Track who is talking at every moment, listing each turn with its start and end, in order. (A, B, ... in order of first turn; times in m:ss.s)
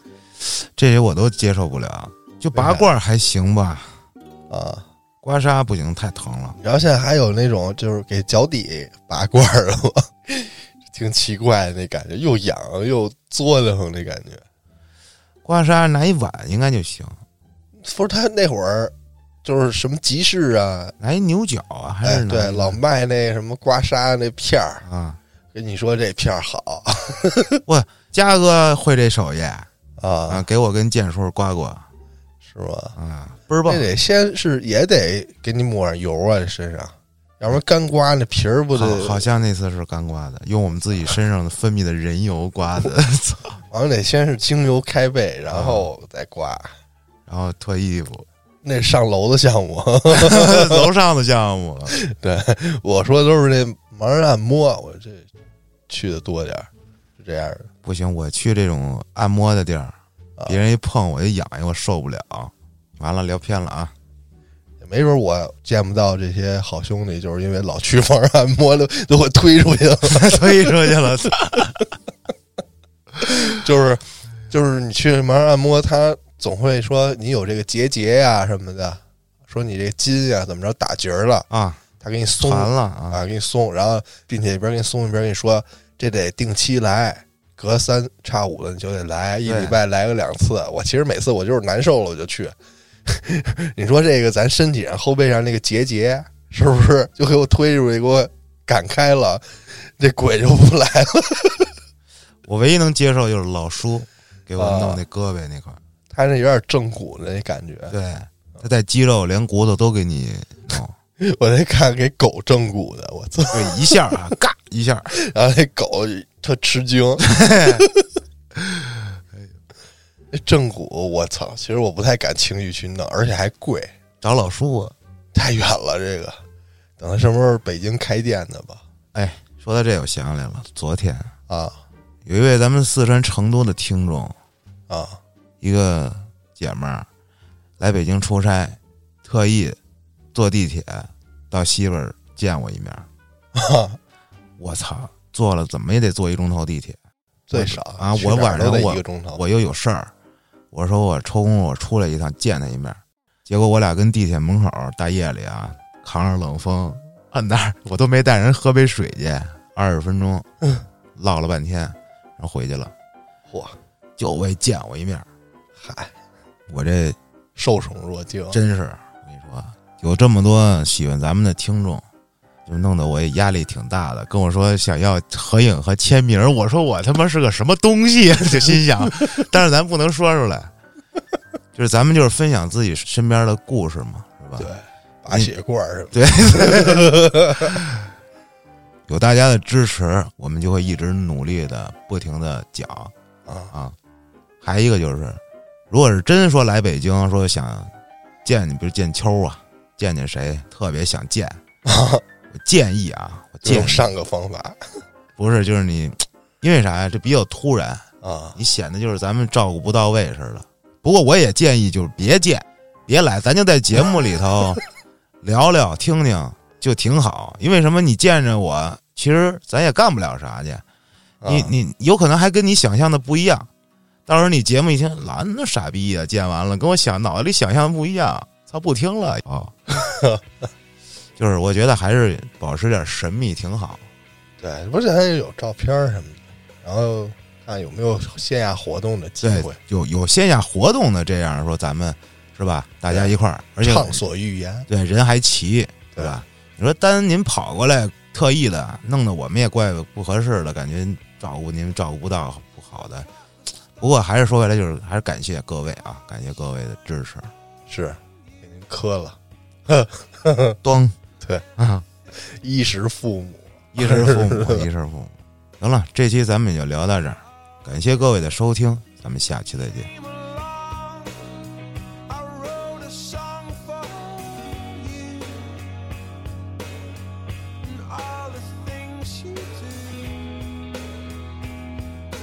0:00.4-0:04.0 A
0:02.5-0:02.9 B
0:04.5-0:04.9 B
0:05.2-0:06.6 A
0:06.6-0:14.4 B
0:15.4-0:17.2 A
0:17.8-0:21.0 B
0:21.0-0:22.8 A
0:22.0-0:24.8 B
0:24.8-0:25.2 A
0:25.5-0:27.6 B
0:27.7-0:29.7 A
0:30.0-0:30.4 B
0:30.3-0:31.9 A
0:32.5-0:33.0 B
0:33.0-0:33.9 A
0:33.7-0:39.2 B
0:38.8-0:43.6 A
0:43.7-0:46.7 B
0:45.5-0:45.9 A
0:47.3-0:48.3 A
0:48.6-0:50.9 B
0:50.1-0:52.0 A
0:51.9-0:55.3 B
0:55.9-0:57.7 B
0:57.8-1:00.0 A
1:00.5-1:03.9 A
1:04.8-1:11.0 B
1:10.1-1:11.8 A
1:11.6-1:11.8 B
1:13.2-1:21.5 B
1:21.5-1:21.8 A
1:22.0-1:32.6 B
1:22.4-1:23.2 A
1:29.4-1:29.8 A
1:33.1-1:41.7 B
1:42.4-1:45.8 A
1:44.6-1:45.0 B
1:46.1-1:48.0 B
1:47.9-1:51.0 A
1:51.2-1:54.2 B
1:53.5-1:55.1 A
1:55.1-1:58.1 B
1:57.2-1:57.8 A
1:58.6-1:59.5 A
2:00.3-2:03.9 B
2:04.2-2:05.0 A
2:05.3-2:06.4 B
2:07.0-2:08.8 B
2:09.1-2:11.3 A
2:11.5-2:11.8 B
2:12.2-2:14.4 A
2:14.9-2:15.2 B
2:15.6-2:17.1 A
2:17.8-2:19.8 A
2:20.3-2:23.1 A
2:23.6-2:24.0 B
2:24.6-2:27.0 A
2:27.5-2:29.4 B
2:27.5-2:30.1 A
2:30.7-2:40.5 A
2:41.2-2:42.9 A
2:43.5-2:43.8 B
2:44.2-2:45.3 A
2:45.8-2:46.2 B
2:46.7-2:47.2 A
2:47.6-2:48.6 B
2:48.5-2:52.1 A
2:52.7-3:00.7 A
3:01.7-3:04.7 A
3:04.6-3:07.7 B
3:06.1-3:08.1 A
3:09.1-3:13.1 A
3:13.5-3:13.7 B
3:13.7-3:14.0 A
3:14.6-3:17.9 A
3:18.4-3:21.6 A
3:21.8-3:22.2 B
3:22.5-3:24.1 A
3:23.6-3:24.8 B
3:25.4-3:34.8 A
3:28.2-3:28.6 B
3:35.4-3:40.8 A
3:41.4-3:41.7 B
3:41.4-3:43.7 A
3:44.3-3:49.9 A
3:50.0-3:50.4 B
3:51.4-3:54.1 A
3:54.6-3:59.8 B
3:59.4-4:04.2 A
4:03.1-4:04.9 B
4:04.9-4:13.3 A
4:06.2-4:06.4 B
4:14.0-4:17.5 A
4:17.9-4:20.8 B
4:20.8-4:21.2 A
4:21.8-4:22.0 A
4:22.3-4:24.9 B
4:23.9-4:30.1 A
4:30.0-4:31.4 C
4:32.3-4:36.1 C
4:37.8-4:41.0 C